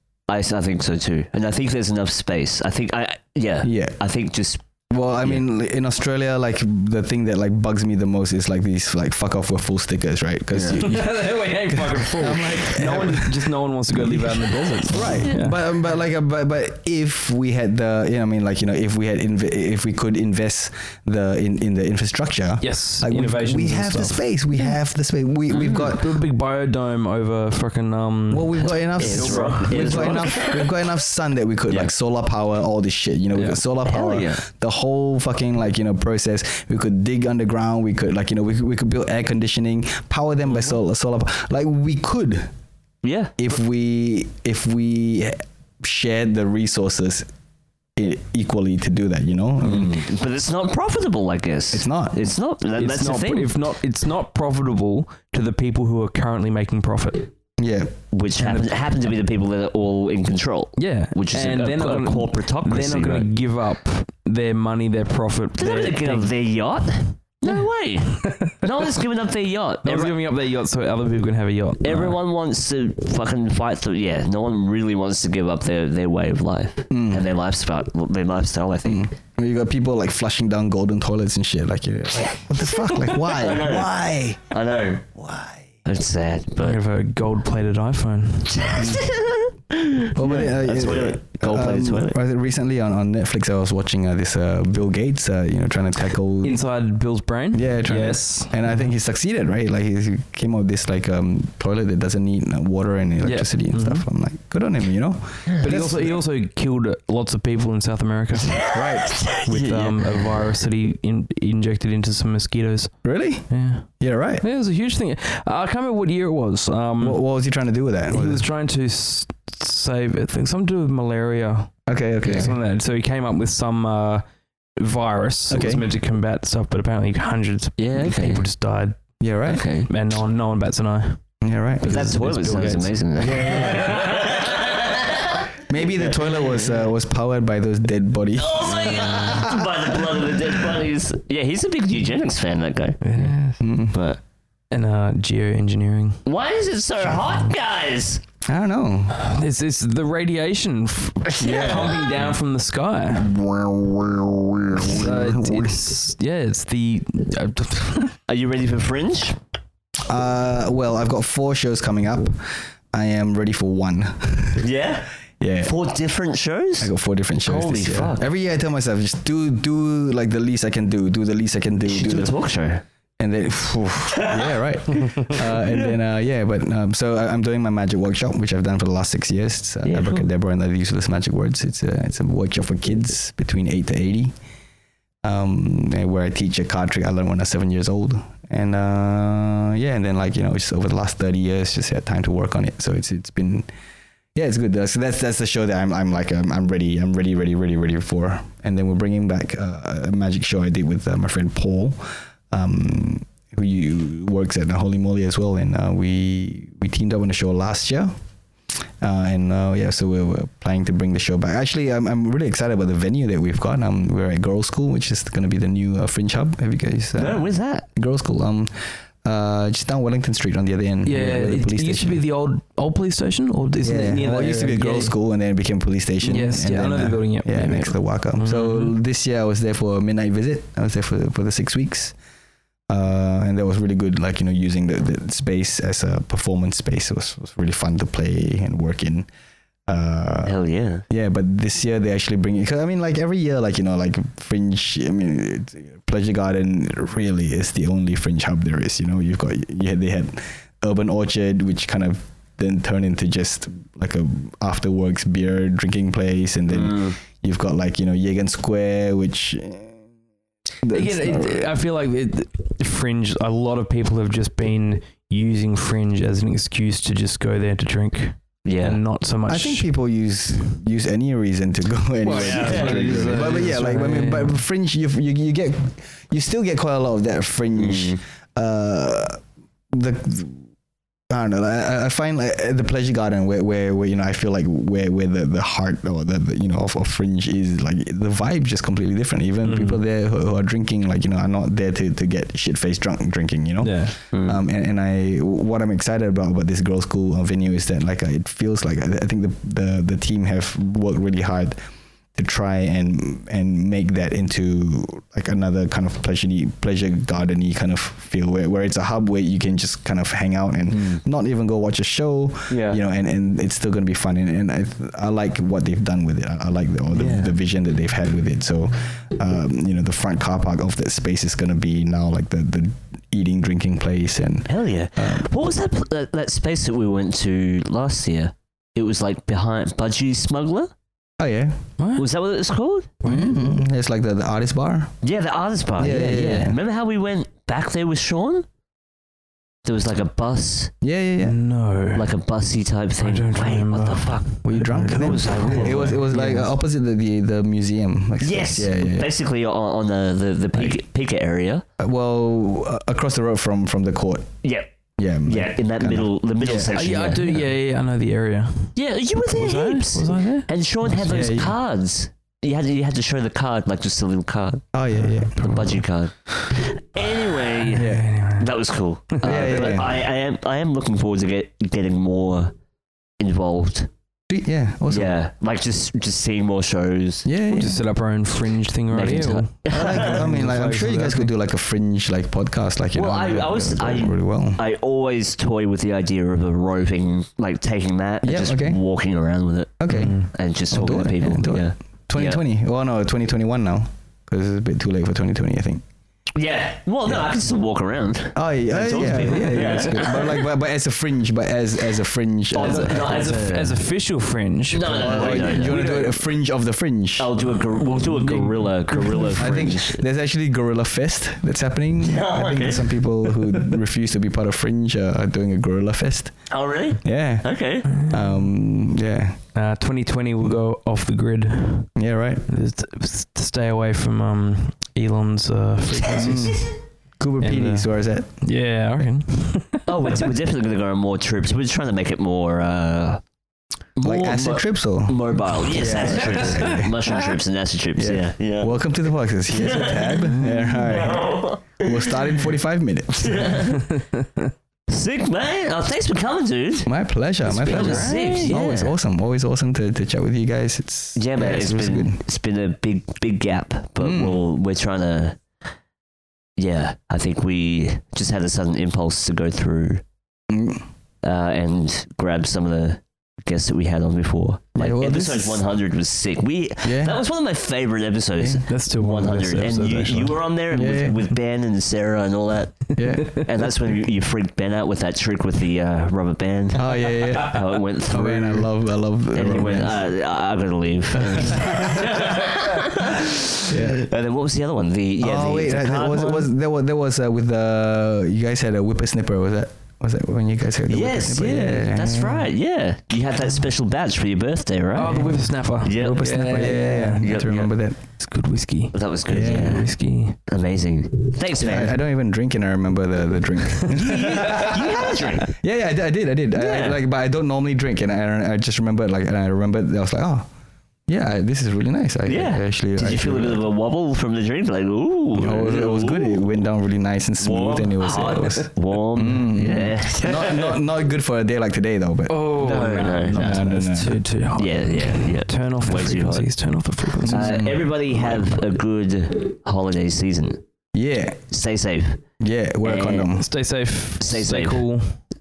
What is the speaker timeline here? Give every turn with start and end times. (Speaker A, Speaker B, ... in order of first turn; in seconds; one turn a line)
Speaker A: 0.3-4.6
Speaker B: 3.6-4.0
Speaker B: 4.9-26.1
Speaker A: 10.5-10.8
Speaker C: 10.7-15.6
Speaker C: 22.6-24.8
Speaker A: 25.5-25.9
Speaker C: 26.0-30.4
Speaker B: 28.3-42.5
Speaker A: 29.0-30.7
Speaker C: 33.4-33.6
Speaker A: 33.9-34.4
Speaker A: 43.0-43.4
Speaker B: 43.4-47.3
Speaker B: 48.0-50.0
Speaker A: 49.6-53.5
Speaker B: 51.7-52.2
Speaker C: 52.8-57.3
Speaker B: 57.6-57.9
Speaker A: 58.1-63.3
Speaker C: 58.4-58.7
Speaker C: 60.8-66.3
Speaker A: 65.6-70.2
Speaker C: 68.2-68.5
Speaker C: 69.8-72.2
Speaker A: 71.8-79.1
Speaker B: 76.9-77.2
Speaker B: 78.8-84.4
Speaker A: 82.9-83.9
Speaker A: 84.5-85.1
Speaker B: 85.2-85.7
Speaker A: 85.8-86.8
Speaker C: 86.6-88.8
Speaker A: 88.6-92.2
Speaker B: 88.8-89.1
Speaker B: 90.1-96.6
Speaker C: 96.4-98.8
Speaker B: 97.5-106.2
Speaker C: 103.2-104.0
Speaker C: 105.6-108.8
Speaker B: 108.7-109.6
Speaker A: 109.1-110.0
Speaker C: 109.5-117.2
Speaker B: 113.0-114.5
Speaker B: 117.0-118.5
Speaker C: 118.1-124.2
Speaker B: 121.9-122.5
Speaker C: 124.8-129.0
Speaker B: 125.5-125.8
Speaker A: 127.8-128.4
Speaker B: 129.2-129.6
Speaker A: 129.5-129.9
Speaker C: 129.9-131.2
Speaker B: 131.4-132.1
Speaker C: 131.8-133.3
Speaker A: 131.8-135.4
Speaker B: 133.2-134.1
Speaker B: 135.7-140.0
Speaker A: 136.0-136.7
Speaker A: 138.4-143.4
Speaker C: 143.0-143.6
Speaker B: 143.6-144.0
Speaker A: 143.9-144.2
Speaker C: 144.7-146.2
Speaker A: 146.2-148.2
Speaker B: 148.4-149.2
Speaker C: 149.2-153.3
Speaker B: 151.4-152.0
Speaker A: 151.4-151.9
Speaker B: 153.1-155.8
Speaker C: 154.8-158.2
Speaker A: 158.3-159.4
Speaker B: 160.1-164.7
Speaker A: 164.6-165.1
Speaker B: 165.4-165.7
Speaker A: 165.6-166.9
Speaker B: 166.8-172.3
Speaker A: 167.4-168.3
Speaker A: 171.8-172.8
Speaker B: 173.2-184.3
Speaker A: 179.8-180.3
Speaker B: 185.2-193.7
Speaker B: 194.3-208.1
Speaker B: 209.0-218.7
Speaker A: 217.2-217.9
Speaker B: 219.2-222.2
Speaker C: 221.1-225.1
Speaker B: 223.8-232.2
Speaker C: 226.2-228.9
Speaker B: 232.9-239.3
Speaker B: 239.9-260.0
Speaker A: 240.4-241.1
Speaker A: 256.7-257.2
Speaker B: 260.8-261.6
Speaker C: 260.9-269.9
Speaker A: 268.6-269.0
Speaker B: 269.5-279.4
Speaker C: 272.2-274.6
Speaker A: 272.2-273.6
Speaker A: 277.8-278.2
Speaker B: 279.9-280.6
Speaker B: 281.3-301.8
Speaker C: 289.6-290.0
Speaker C: 293.8-294.2
Speaker A: 294.3-294.6
Speaker B: 302.4-325.5
Speaker A: 310.9-311.2
Speaker A: 312.7-313.0
Speaker A: 317.1-317.6
Speaker A: 324.7-330.9
Speaker B: 331.4-331.8
Speaker C: 332.0-332.2
Speaker A: 332.2-333.1
Speaker C: 333.2-333.7
Speaker B: 333.2-335.1
Speaker A: 335.2-338.7
Speaker B: 336.0-336.8
Speaker A: 339.9-340.9
Speaker B: 341.0-341.6
Speaker C: 341.4-342.3
Speaker A: 342.1-346.2
Speaker C: 343.2-346.7
Speaker B: 344.6-349.3
Speaker A: 348.4-351.8
Speaker B: 352.0-354.6
Speaker B: 355.2-356.9
Speaker A: 355.4-357.4
Speaker C: 356.7-359.0
Speaker A: 358.9-364.9
Speaker C: 359.5-361.5
Speaker B: 361.3-361.7
Speaker B: 364.9-366.0
Speaker A: 365.6-372.7
Speaker C: 367.9-368.7
Speaker B: 367.9-368.3
Speaker B: 369.4-370.2
Speaker C: 369.5-369.8
Speaker A: 373.4-374.1
Speaker B: 374.5-375.3
Speaker A: 375.1-377.5
Speaker B: 377.4-378.0
Speaker C: 377.7-381.5
Speaker A: 379.1-380.3
Speaker B: 379.9-384.8
Speaker A: 383.1-392.6
Speaker B: 388.4-389.0
Speaker B: 390.0-396.0
Speaker C: 390.1-390.5
Speaker A: 396.6-400.6
Speaker B: 398.6-403.5
Speaker A: 402.7-404.0
Speaker C: 402.8-406.0
Speaker A: 404.9-406.4
Speaker B: 405.1-407.5
Speaker A: 407.4-410.2
Speaker C: 408.2-409.8
Speaker B: 409.6-416.7
Speaker A: 412.2-413.3
Speaker A: 416.7-418.1
Speaker B: 417.2-419.6
Speaker C: 418.1-418.4
Speaker C: 419.8-422.1
Speaker B: 422.2-422.6
Speaker C: 422.7-427.0
Speaker B: 426.4-426.8
Speaker A: 426.4-426.8
Speaker B: 427.4-428.5
Speaker C: 427.6-430.4
Speaker A: 430.1-433.4
Speaker A: 434.2-438.9
Speaker B: 434.2-437.4
Speaker C: 436.2-436.9
Speaker B: 438.2-443.9
Speaker A: 439.7-442.1
Speaker C: 440.6-441.0
Speaker A: 443.4-444.1
Speaker A: 445.1-447.1
Speaker B: 447.1-452.4
Speaker A: 447.7-449.1
Speaker C: 447.7-448.8
Speaker A: 451.4-455.6
Speaker B: 454.2-454.6
Speaker A: 456.8-460.2
Speaker B: 460.7-461.1
Speaker A: 461.4-478.9
Speaker B: 464.9-465.8
Speaker B: 467.0-467.4
Speaker B: 468.6-468.9
Speaker C: 468.9-470.6
Speaker B: 470.9-471.4
Speaker B: 473.2-473.6
Speaker B: 476.9-480.2
Speaker A: 479.5-486.7
Speaker B: 481.3-482.2
Speaker B: 483.9-484.2
Speaker B: 485.4-492.7
Speaker A: 491.1-495.5
Speaker C: 495.1-497.5
Speaker A: 496.0-497.9
Speaker B: 496.1-498.2
Speaker C: 498.4-500.6
Speaker A: 499.1-500.1
Speaker B: 499.5-500.1
Speaker A: 500.7-502.2
Speaker B: 501.7-510.7
Speaker A: 504.1-505.7
Speaker A: 506.7-507.2
Speaker B: 511.3-513.8
Speaker A: 512.5-516.7
Speaker B: 515.6-522.8
Speaker A: 517.6-521.0
Speaker C: 522.5-527.9
Speaker A: 522.8-523.9
Speaker B: 523.5-524.4
Speaker A: 524.8-526.7
Speaker A: 527.4-530.8
Speaker B: 527.4-528.1
Speaker B: 531.1-531.6
Speaker A: 531.7-532.4
Speaker B: 532.6-533.7
Speaker A: 533.0-533.5
Speaker C: 533.5-535.4
Speaker A: 534.4-535.0